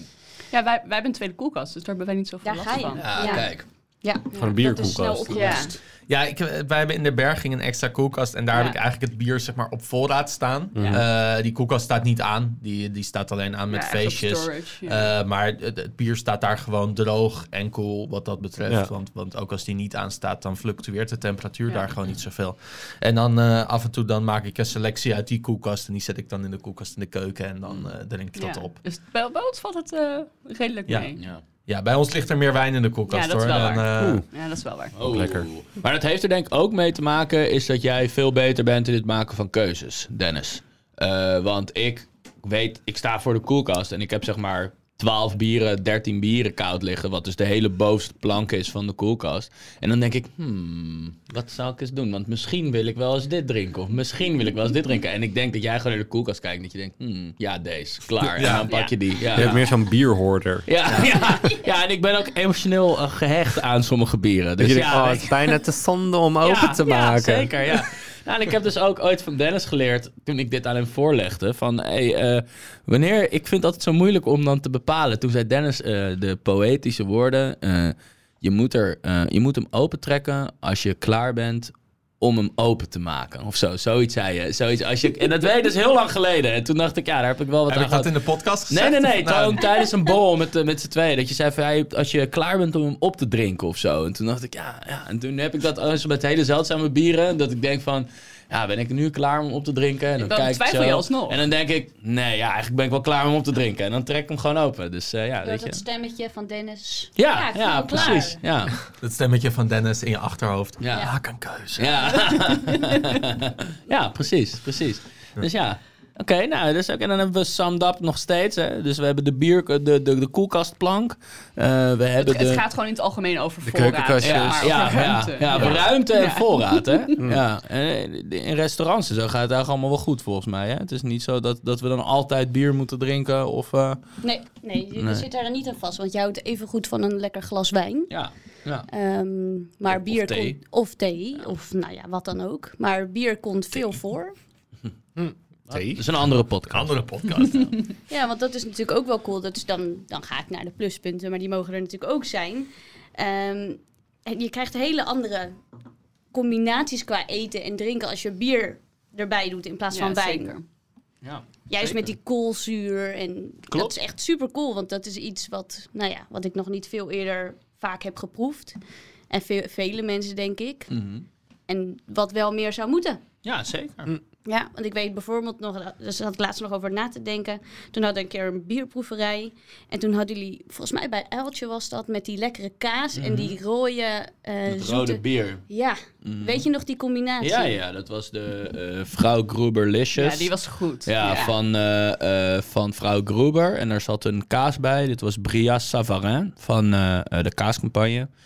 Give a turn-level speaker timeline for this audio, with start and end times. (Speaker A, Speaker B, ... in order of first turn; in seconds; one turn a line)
Speaker A: 0.5-3.5
Speaker B: 2.4-5.7
Speaker C: 3.0-3.6
Speaker D: 4.3-5.7
Speaker A: 5.3-5.7
Speaker E: 6.1-28.8
Speaker D: 10.8-11.0
Speaker A: 13.7-15.1
Speaker A: 28.4-31.2
Speaker E: 30.9-31.1
Speaker E: 31.7-34.2
Speaker A: 33.1-35.0
Speaker D: 34.0-34.2
Speaker C: 35.0-59.6
Speaker D: 35.0-35.5
Speaker E: 58.2-58.7
Speaker A: 58.6-58.9
Speaker D: 59.3-60.7
Speaker C: 60.7-65.4
Speaker D: 64.6-67.5
Speaker C: 66.4-88.1
Speaker E: 87.7-89.7
Speaker C: 88.7-105.8
Speaker A: 100.2-101.4
Speaker B: 105.4-108.4
Speaker C: 107.2-108.8
Speaker E: 108.9-112.2
Speaker C: 110.8-111.1
Speaker C: 111.8-122.6
Speaker A: 122.2-127.1
Speaker D: 123.6-125.2
Speaker C: 124.2-134.0
Speaker B: 134.2-138.1
Speaker C: 135.0-135.2
Speaker C: 138.1-138.9
Speaker B: 138.9-144.3
Speaker C: 139.9-140.6
Speaker D: 145.2-146.0
Speaker C: 145.7-147.0
Speaker E: 146.7-147.8
Speaker B: 148.1-155.6
Speaker B: 156.3-160.5
Speaker A: 159.9-160.6
Speaker C: 161.2-162.1
Speaker B: 161.7-168.8
Speaker B: 169.3-170.9
Speaker C: 170.9-171.2
Speaker B: 171.7-173.2
Speaker C: 173.4-174.1
Speaker B: 174.4-187.8
Speaker C: 183.2-183.6
Speaker C: 184.7-185.6
Speaker C: 186.2-186.6
Speaker C: 187.4-190.5
Speaker A: 190.1-191.5
Speaker C: 191.1-198.3